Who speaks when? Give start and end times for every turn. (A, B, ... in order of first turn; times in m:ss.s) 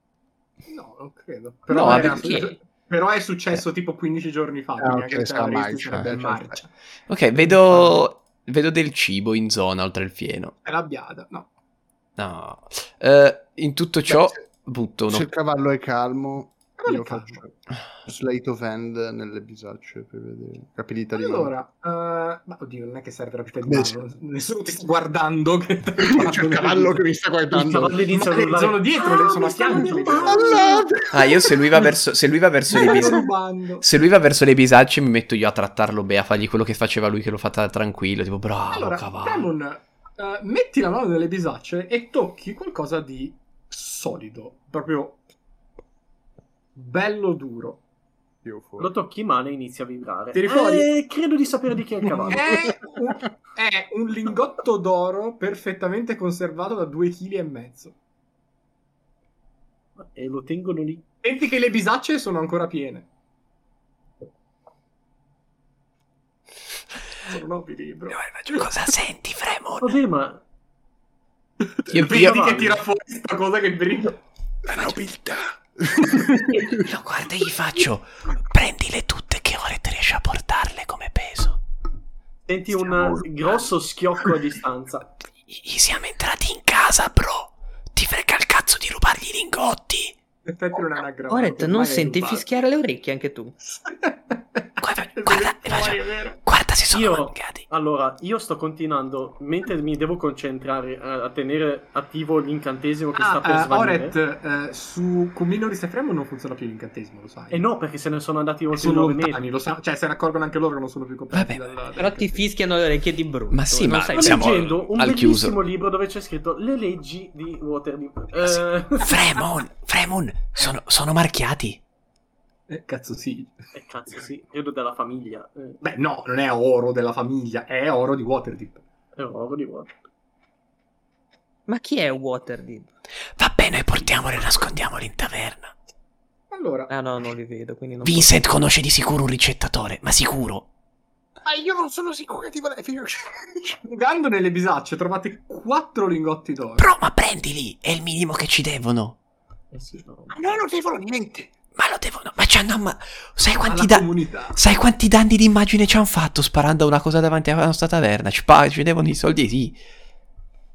0:00.7-0:06.7 A
0:01.7-0:02.5 B
0:01.8-0:02.5 C
0:04.8-0:06.6 D
0:07.1-0:10.6 B
0:07.4-0:08.0 A
0:10.6-0:11.5 A
0:12.2-0:15.3 B
0:14.1-0:14.4 D
0:15.1-0:21.5 D
0:16.8-0:17.4 A
0:21.2-0:27.0 A
0:23.7-0:24.0 D
0:26.0-0:28.5 D
0:27.5-0:30.9 E
0:28.1-0:30.9 A
0:29.9-0:31.5 D
0:31.1-0:33.2 B
0:32.7-0:33.8 A
0:32.8-0:33.2 D
0:33.8-0:39.5 B
0:38.7-0:45.2 A
0:46.8-0:47.8 A
0:48.4-0:48.9 D
0:48.8-0:52.7 E
0:50.3-0:50.9 A
0:52.2-0:52.5 D
0:52.3-0:58.0 A
1:00.0-1:01.0 E
1:01.2-1:03.1 A
1:07.2-1:08.7 A
1:08.1-1:10.0 B
1:09.8-1:10.4 E
1:11.6-1:14.2 A
1:11.9-1:12.8 B
1:12.0-1:12.8 E
1:14.6-1:16.8 D
1:16.0-1:16.8 A
1:16.8-1:21.6 B
1:22.5-1:25.1 E
1:23.0-1:23.2 D
1:25.5-1:30.2 B
1:30.5-1:32.4 A
1:31.3-1:33.6 C
1:33.6-1:36.4 A
1:34.8-1:37.7 B
1:36.9-1:44.2 E
1:43.2-1:47.7 A
1:47.5-1:49.4 E
1:48.7-1:52.4 A
1:51.3-1:51.6 B
1:52.0-1:54.6 C
1:53.5-1:55.6 B
1:54.1-1:59.2 E
1:58.4-2:01.8 B
2:02.7-2:03.7 A
2:03.7-2:05.8 E
2:05.8-2:08.8 A
2:09.2-2:10.0 E
2:11.7-2:12.9 C
2:13.4-2:15.8 B
2:16.5-2:16.9 A
2:16.9-2:18.4 C
2:18.0-2:20.7 B
2:21.4-2:23.8 D
2:23.8-2:26.9 A
2:26.8-2:29.2 B
2:29.7-2:30.6 E
2:30.3-2:31.5 D
2:31.8-2:39.8 B
2:33.7-2:34.6 A